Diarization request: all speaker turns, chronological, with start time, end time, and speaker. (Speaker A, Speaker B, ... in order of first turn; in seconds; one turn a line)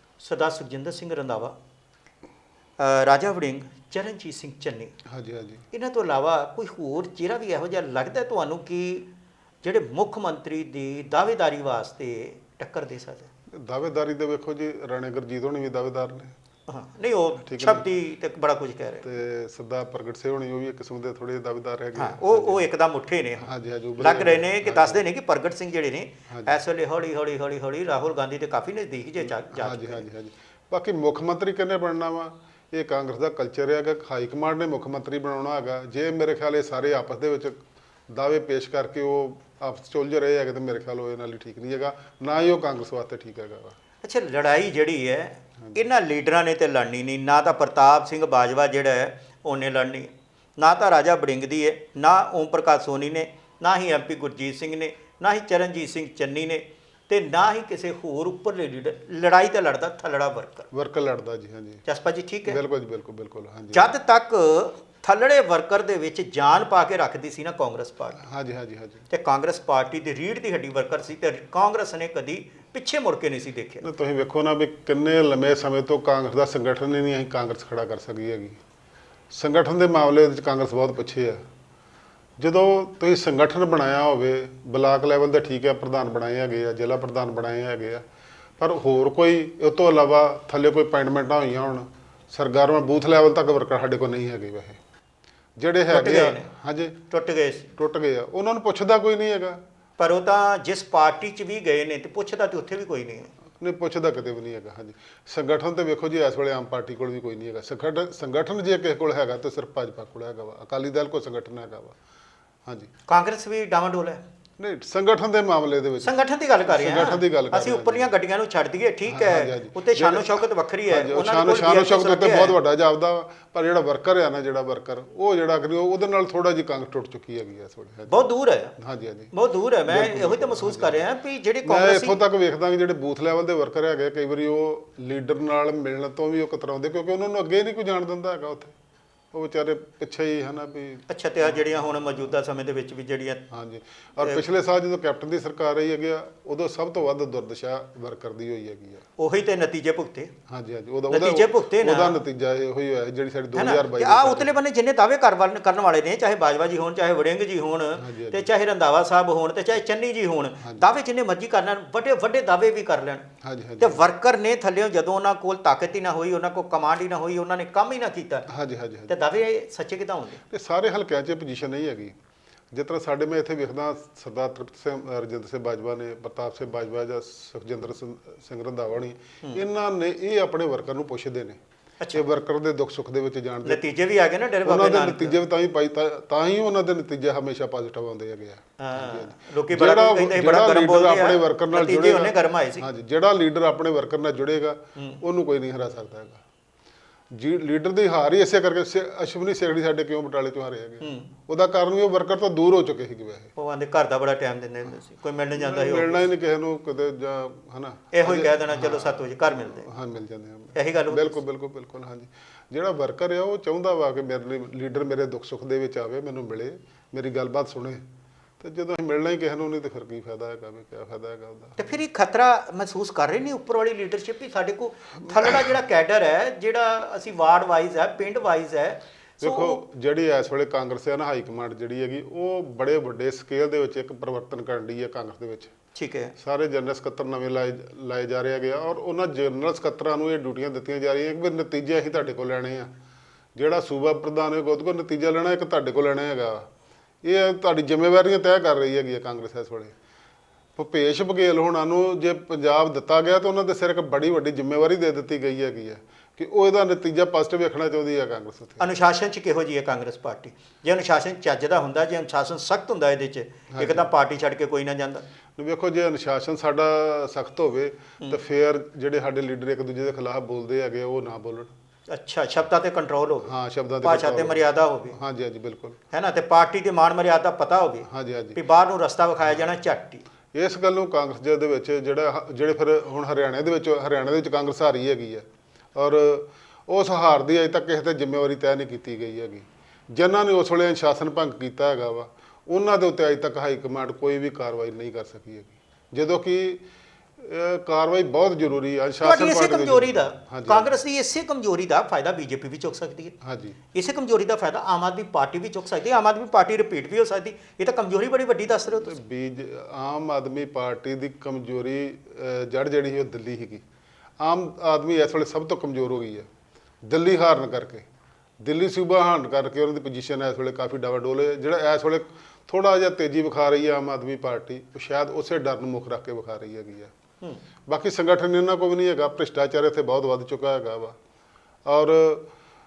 Speaker A: 0.2-1.6
Speaker A: 2.8-4.9
Speaker B: 5.1-5.7
Speaker A: 5.7-9.1
Speaker A: 9.6-13.3
Speaker B: 13.5-16.3
Speaker A: 16.7-19.1
Speaker B: 17.4-17.9
Speaker B: 19.0-22.7
Speaker A: 22.0-30.1
Speaker B: 23.4-25.0
Speaker B: 26.3-26.6
Speaker B: 29.2-43.8
Speaker A: 44.0-60.7
Speaker B: 60.7-61.8
Speaker A: 61.9-62.6
Speaker B: 62.5-63.9
Speaker A: 63.7-68.2
Speaker B: 68.2-69.1
Speaker A: 69.1-73.9
Speaker B: 73.8-78.6
Speaker B: 79.3-81.4
Speaker B: 82.4-88.0
Speaker B: 88.6-94.8
Speaker B: 95.6-97.0
Speaker A: 95.9-96.5
Speaker A: 97.1-97.7
Speaker B: 97.8-99.6
Speaker A: 100.0-103.3
Speaker B: 103.6-112.0
Speaker A: 113.1-114.2
Speaker B: 114.6-118.1
Speaker A: 116.0-122.6
Speaker B: 119.1-128.1
Speaker A: 128.1-128.8
Speaker B: 128.8-129.3
Speaker A: 129.3-132.2
Speaker B: 129.9-131.1
Speaker B: 131.6-138.7
Speaker B: 139.3-142.3
Speaker A: 141.1-143.4
Speaker B: 143.5-149.0
Speaker A: 149.2-150.3
Speaker B: 150.5-154.6
Speaker A: 151.1-152.2
Speaker A: 153.5-163.3
Speaker B: 157.9-158.5
Speaker B: 160.6-160.9
Speaker B: 163.4-164.0
Speaker A: 163.8-168.5
Speaker B: 168.5-169.2
Speaker A: 169.1-170.4
Speaker B: 170.5-172.2
Speaker B: 172.7-181.6
Speaker B: 182.1-183.8
Speaker A: 183.6-185.4
Speaker B: 184.6-196.4
Speaker A: 188.8-192.9
Speaker A: 195.0-195.2
Speaker B: 197.3-203.5
Speaker A: 201.0-201.3
Speaker A: 203.6-206.3
Speaker B: 205.5-218.0
Speaker A: 208.1-209.9
Speaker A: 210.8-211.4
Speaker B: 218.6-222.0
Speaker A: 221.8-229.8
Speaker B: 225.3-225.7
Speaker B: 229.4-235.7
Speaker A: 235.9-236.3
Speaker B: 236.4-242.9
Speaker B: 243.6-246.7
Speaker B: 247.2-249.9
Speaker B: 250.8-258.9
Speaker A: 258.8-265.2
Speaker B: 263.7-264.1
Speaker B: 265.6-271.7
Speaker A: 272.1-275.2
Speaker B: 273.4-276.0
Speaker A: 276.1-280.2
Speaker B: 278.1-278.6
Speaker B: 280.5-296.8
Speaker B: 297.4-300.9
Speaker A: 299.2-303.4
Speaker B: 303.4-303.8
Speaker A: 303.9-309.2
Speaker B: 308.9-313.8
Speaker B: 314.4-316.5
Speaker B: 317.1-318.1
Speaker B: 318.6-327.1
Speaker B: 327.9-331.2
Speaker B: 331.9-332.5